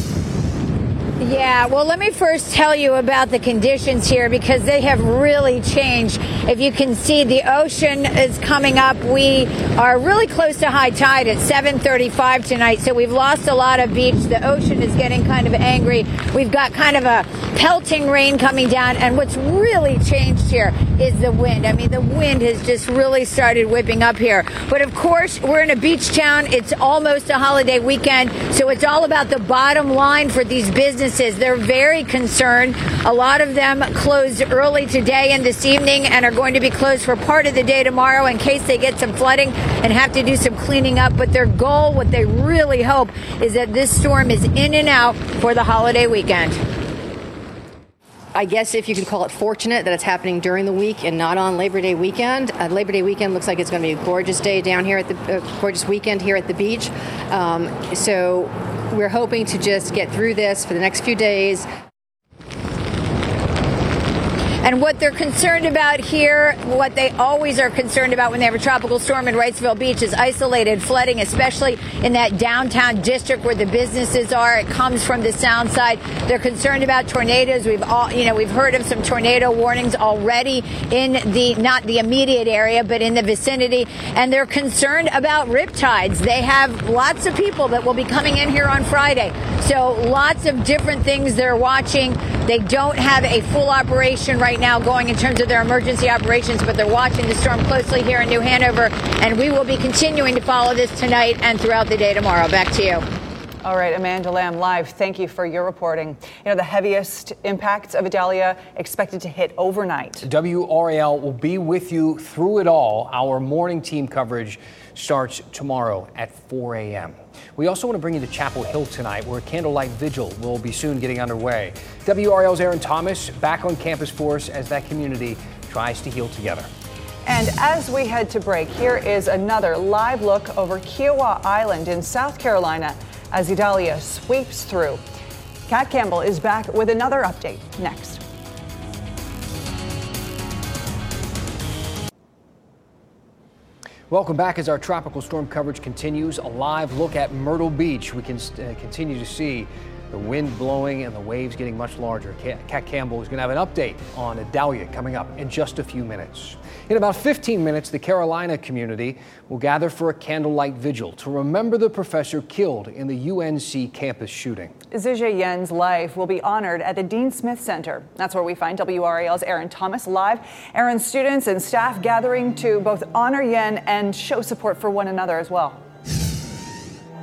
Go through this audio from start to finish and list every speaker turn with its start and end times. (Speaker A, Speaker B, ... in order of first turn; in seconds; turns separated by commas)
Speaker A: 1.2-46.6, Speaker B: 48.3-61.7, Speaker A: 64.6-103.0, Speaker C: 103.6-110.2, Speaker D: 110.2-126.7, Speaker C: 127.3-135.0, Speaker C: 135.7-138.2, Speaker D: 144.1-164.7, Speaker C: 164.9-175.8